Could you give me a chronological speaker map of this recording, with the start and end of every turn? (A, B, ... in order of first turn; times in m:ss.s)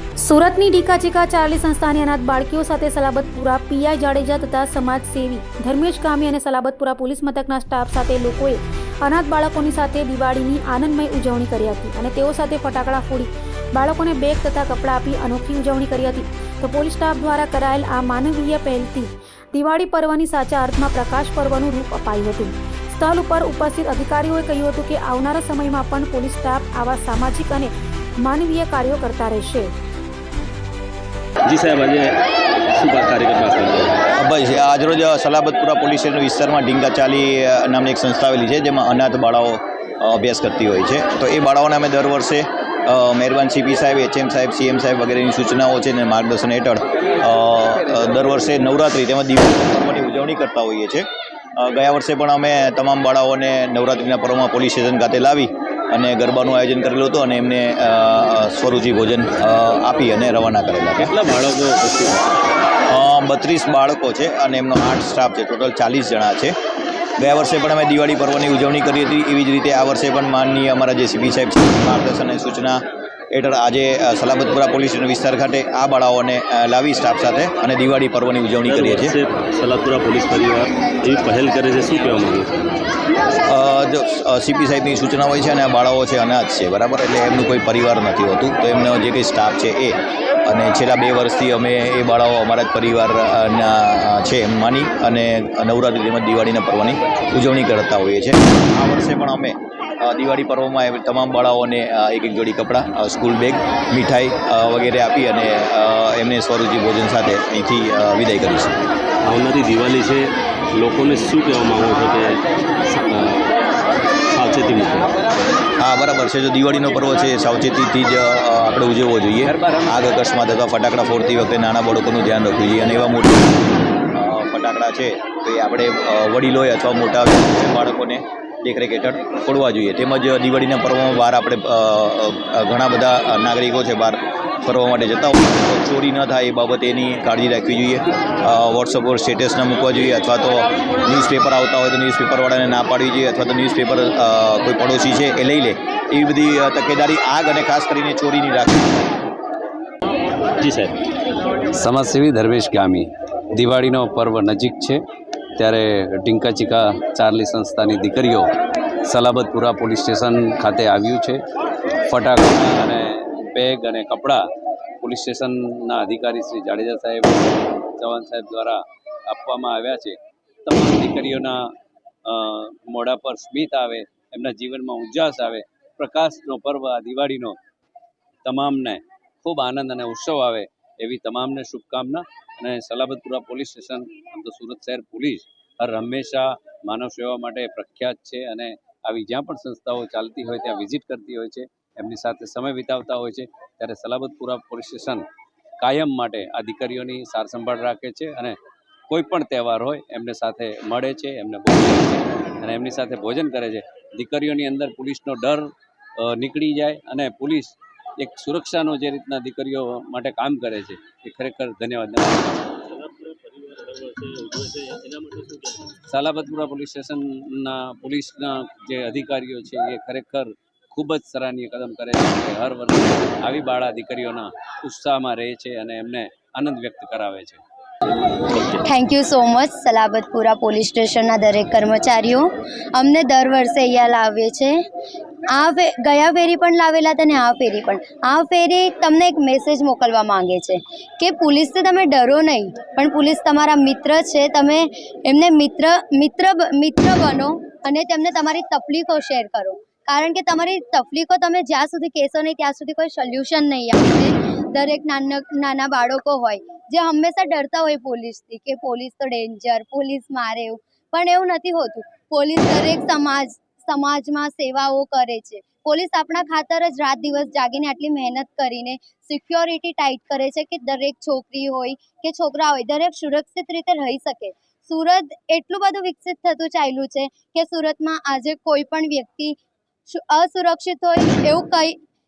0:00.2-0:29.7 A
0:31.4-0:32.2 B
0:32.7-0:34.0 B
0:34.2-1:01.1 C
1:01.0-1:02.2 B
1:02.9-1:06.5 C
1:07.2-1:12.8 C
1:13.3-1:19.1 C
1:18.6-1:22.5 B
1:23.4-1:48.8 C
1:49.2-1:53.5 B
1:54.3-1:55.1 B
1:55.8-2:03.6 C
1:59.4-1:59.9 D
2:04.1-2:29.0 C
2:30.6-2:30.9 B
2:31.7-2:35.0 D
2:35.6-2:38.5 D
2:39.1-2:41.4 D
2:42.1-2:44.4 D
2:45.0-2:51.6 D
2:52.3-2:57.6 D
2:58.4-3:15.2 D
3:15.8-3:18.6 D
3:19.1-3:25.7 D
3:26.2-3:32.7 D
3:32.9-3:35.9 B
3:36.1-3:47.6 D
3:48.7-3:54.8 E
3:55.5-4:39.6 E
4:40.1-4:42.0 E